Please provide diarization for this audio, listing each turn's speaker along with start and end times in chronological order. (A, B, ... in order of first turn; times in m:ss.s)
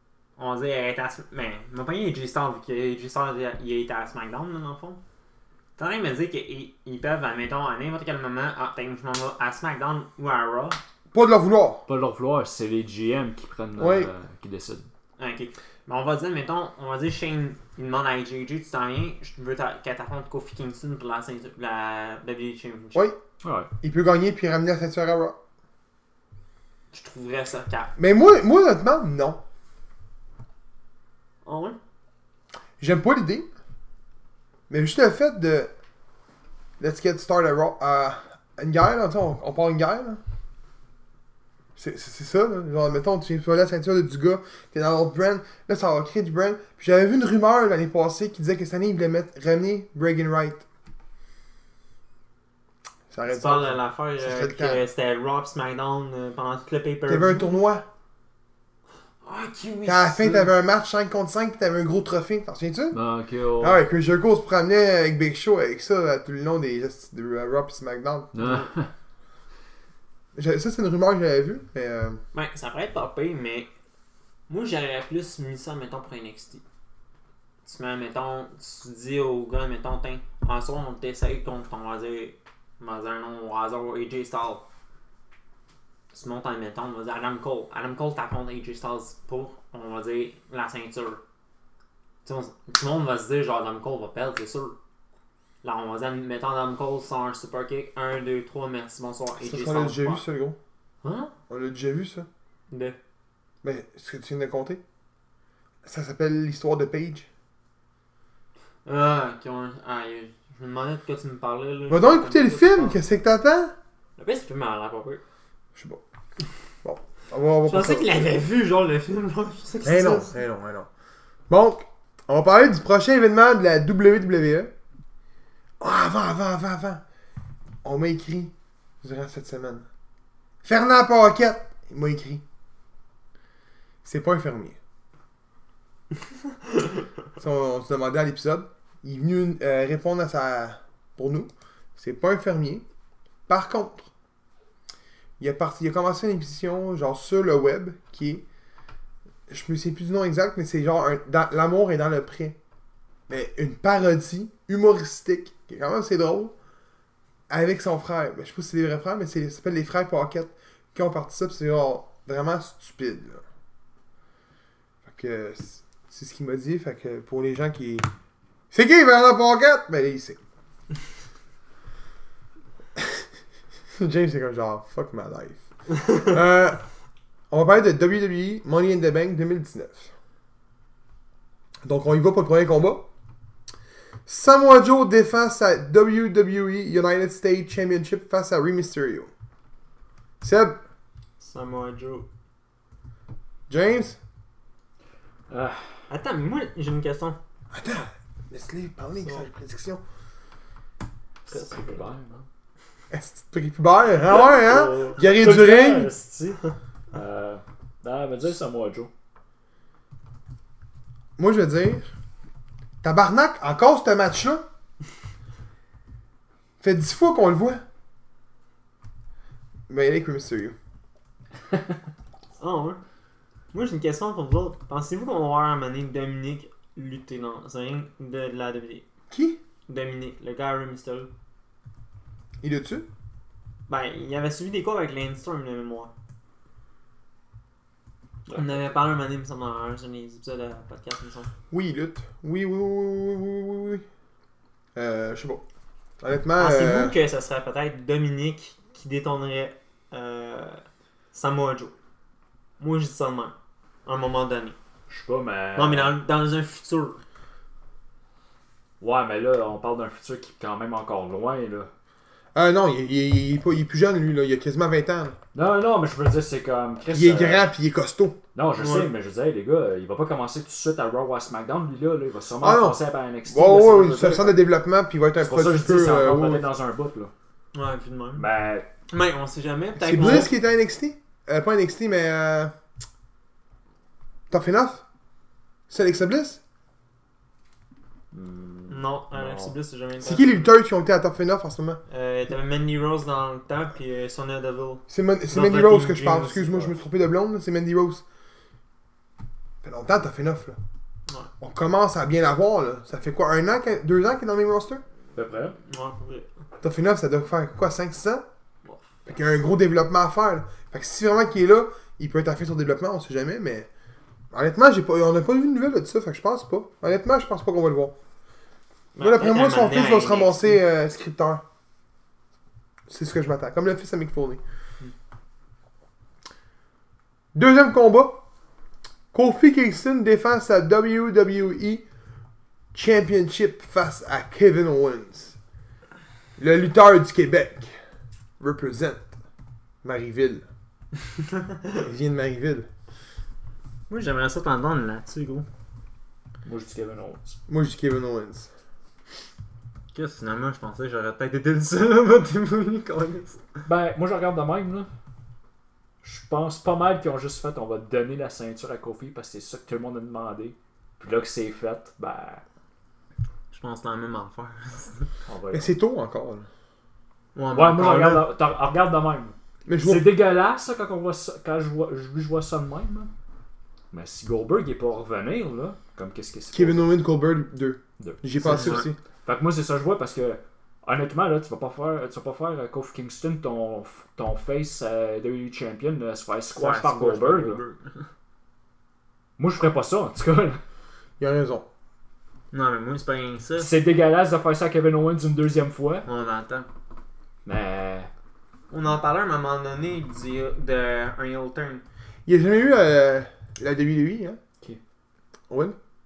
0:00.4-0:05.0 A
0:05.8-0:10.8 A
0:11.1-0:11.8 B
0:11.9-0:14.9 C
0:13.8-0:14.1 B
0:15.2-0:23.1 A
0:23.4-0:23.7 C
0:23.8-0:25.4 B
0:26.9-0:27.9 A
0:28.0-0:29.4 B
0:31.4-0:31.8 A
0:32.8-0:33.5 B
0:34.7-0:35.7 B
0:36.8-0:40.2 B
0:41.8-0:50.6 B
0:53.1-0:54.8 B
0:53.3-0:57.5 A
0:57.1-0:57.8 B
0:59.2-1:00.5 A
0:59.8-1:03.0 B
1:02.9-1:03.8 C
1:03.6-1:08.3 B
1:08.3-1:08.9 C
1:08.4-1:08.6 A
1:10.4-1:12.2 B
1:12.3-1:13.7 A
1:14.5-1:16.6 A
1:17.6-1:24.7 A
1:26.1-1:31.2 A
1:32.2-1:34.8 A
1:35.6-1:40.2 A
1:39.4-1:40.6 B
1:41.0-1:41.3 A
1:41.5-1:42.3 B
1:42.7-1:43.0 A
1:43.6-1:44.8 B
1:45.8-1:47.3 B
1:48.8-1:53.0 A
1:51.9-1:53.7 B
1:54.2-1:55.2 A
1:55.8-1:56.0 B
1:56.8-1:58.1 B
1:57.7-2:00.3 A
1:59.8-2:00.9 B
2:01.5-2:04.7 B
2:05.8-2:07.0 B
2:07.8-2:09.9 B
2:10.6-2:12.4 B
2:14.0-2:14.8 B
2:17.4-2:22.8 B
2:23.5-2:24.1 B
2:25.4-2:28.4 B
2:29.5-2:32.6 B
2:33.3-2:36.5 B
2:37.5-2:43.4 B
2:45.1-2:48.1 B
2:48.7-2:50.4 B
2:54.0-2:56.8 B
2:57.5-3:00.1 B
3:01.8-3:03.1 B
3:04.3-3:09.3 B
3:10.4-3:10.8 B
3:11.4-3:12.3 A
3:13.7-3:14.2 B
3:15.5-3:15.8 C
3:16.1-3:17.4 A
3:17.7-3:20.0 B
3:19.2-3:19.5 A
3:21.5-3:22.5 C
3:23.1-3:26.1 B
3:24.3-3:26.6 C
3:27.1-3:29.1 C
3:31.4-3:32.1 B
3:33.0-3:34.6 B
3:36.8-3:37.8 B
3:39.9-3:40.8 B
3:42.6-3:43.0 A
3:43.7-3:49.0 A
3:49.3-3:49.6 B
3:49.9-3:51.3 A
3:52.6-3:53.1 B
3:53.9-3:56.1 A
3:58.5-4:01.5 A
4:01.7-4:04.0 B
4:05.0-4:05.6 B
4:06.2-4:07.2 B
4:06.6-4:12.0 A
4:12.8-4:14.8 A
4:15.1-4:16.2 C
4:15.8-4:17.2 A
4:19.0-4:21.9 C
4:22.6-4:25.4 B
4:25.5-4:27.7 C
4:27.1-4:28.4 B
4:28.6-4:34.7 C
4:28.8-4:29.1 A
4:32.6-4:36.7 B
4:35.4-4:37.3 C
4:37.7-4:38.5 A
4:38.4-4:38.9 C
4:39.1-4:40.5 A
4:40.0-4:42.7 B
4:44.5-4:45.0 B
4:45.9-4:46.6 B
4:48.3-4:49.8 C
4:48.9-4:50.7 A
4:50.2-4:52.0 B
4:52.1-4:56.9 A
4:55.1-4:58.2 B
4:59.8-5:00.8 B
5:01.6-5:05.0 B
5:05.4-5:05.8 C
5:05.9-5:06.5 A
5:06.8-5:08.4 B
5:09.3-5:13.9 B
5:14.5-5:18.2 B
5:19.2-5:20.8 A
5:19.2-5:21.6 B
5:23.1-5:24.6 B
5:27.6-5:28.4 B
5:29.3-5:32.0 B
5:32.9-5:35.6 B
5:36.6-5:37.9 B
5:38.6-5:39.3 B
5:40.0-5:40.7 B
5:41.9-5:42.9 B
5:44.1-5:45.7 A
5:46.6-5:47.6 C
5:47.7-5:48.7 B
5:50.1-5:53.8 A
5:53.8-5:55.1 C
5:56.2-6:02.6 C
6:03.7-6:05.3 A
6:05.5-6:05.9 C
6:05.7-6:06.7 B
6:07.6-6:08.5 A
6:07.7-6:13.3 C
6:09.9-6:10.3 B
6:14.1-6:17.1 C
6:16.7-6:19.2 B
6:18.2-6:27.8 C
6:18.6-6:19.1 A
6:26.8-6:28.1 A
6:29.6-6:30.8 C
6:31.4-6:31.9 B
6:32.7-6:33.9 A
6:33.8-6:36.3 C
6:36.3-6:36.9 A
6:37.6-6:38.3 C
6:38.9-6:42.0 A
6:42.5-6:44.6 B
6:45.7-6:46.0 B